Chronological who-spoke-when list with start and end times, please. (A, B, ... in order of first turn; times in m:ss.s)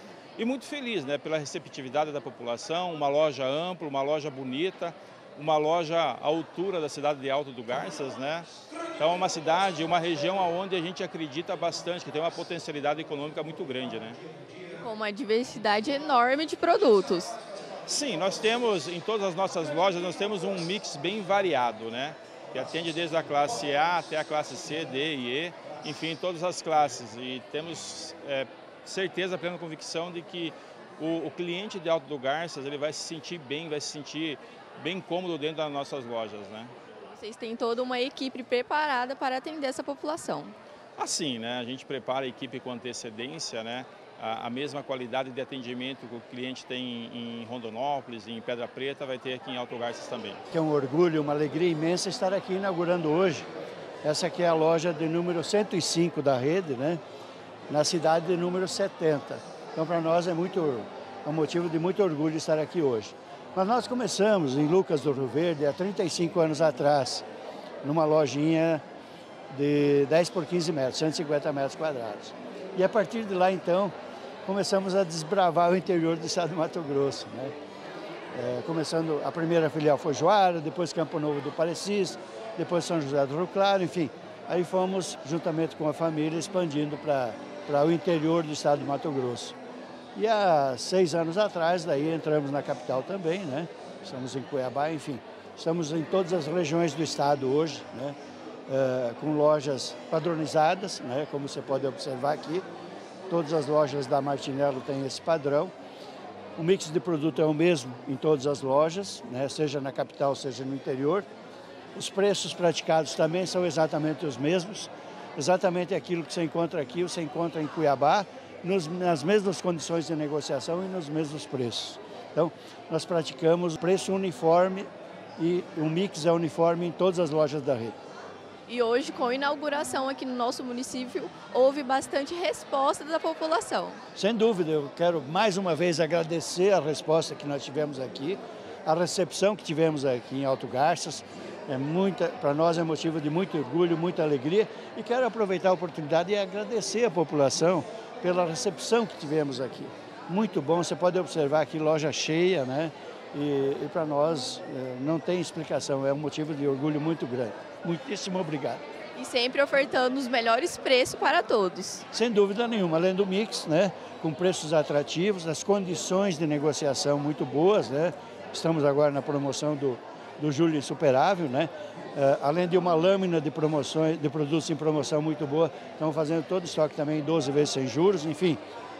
0:00.4-0:08.5 A
0:09.0-0:14.2 A
0:14.8-0:17.4 B
0:17.8-0:36.7 A
0:37.1-0:40.5 B
0:41.0-0:50.4 A
0:50.5-0:53.4 C
0:54.0-0:57.0 C
0:57.7-1:07.2 C
1:07.8-1:08.8 C
1:09.5-1:13.9 C
1:14.4-1:17.5 C
1:18.3-1:29.6 C
1:30.1-1:38.2 C
1:38.7-1:42.6 C
1:43.3-1:45.7 C
1:46.6-1:51.2 C
1:51.9-2:08.0 C
2:08.7-2:14.0 B
2:14.2-2:38.8 C
2:39.2-2:42.0 B
2:42.1-2:58.6 C